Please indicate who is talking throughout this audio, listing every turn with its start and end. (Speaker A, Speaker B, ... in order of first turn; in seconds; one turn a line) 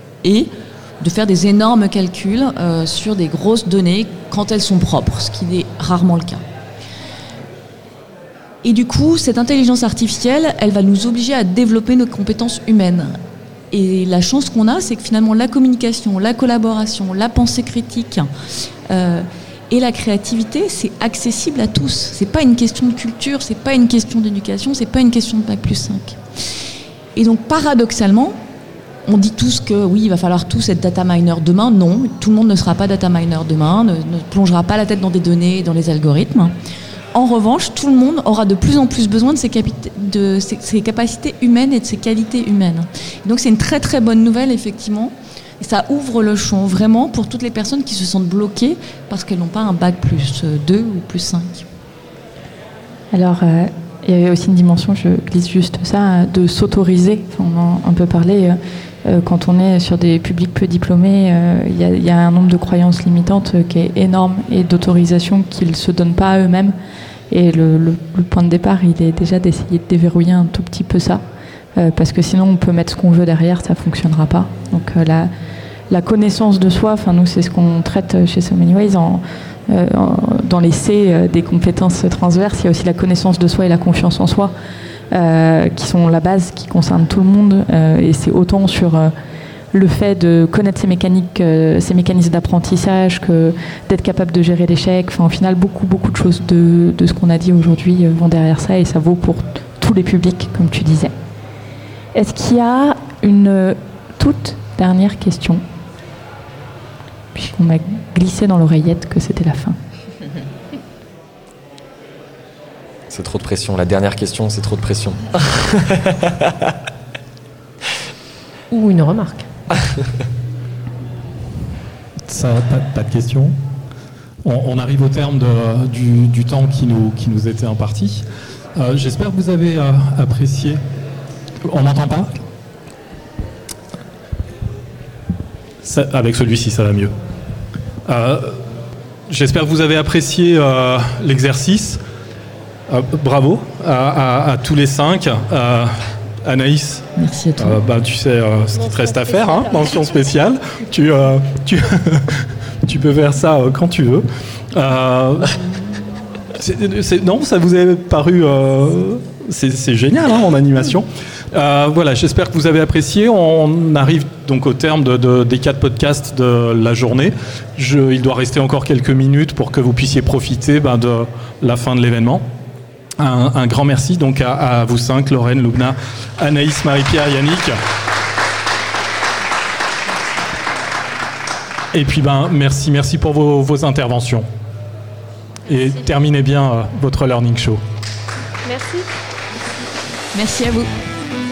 Speaker A: 0.2-6.4
Speaker A: 8.6-13.2
Speaker A: 13.7-18.3
Speaker A: 18.9-26.2
Speaker A: 27.1-28.4
Speaker A: 29.1-36.5
Speaker A: 37.1-51.6
Speaker B: 53.1-66.7
Speaker B: 67.3-71.2
Speaker B: 71.7-75.3
Speaker B: 75.9-84.5
Speaker B: 85.1-89.1
Speaker B: 89.7-101.1
Speaker B: 102.1-105.6
Speaker B: 107.3-109.8
Speaker C: 113.1-116.7
Speaker D: 118.7-119.5
Speaker E: 122.3-123.5
Speaker E: 124.4-128.2
Speaker E: 128.8-130.8
Speaker E: 131.6-132.4
Speaker E: 135.8-137.1
Speaker E: 138.0-138.6
Speaker E: 139.3-142.0
Speaker E: 142.9-147.1
Speaker A: 147.2-147.8
Speaker E: 147.6-155.6
Speaker D: 148.7-150.1
Speaker E: 156.5-172.4
Speaker E: 173.2-177.8
Speaker E: 181.9-184.4
Speaker E: 185.7-187.8
Speaker D: 188.6-189.1
Speaker A: 190.3-190.9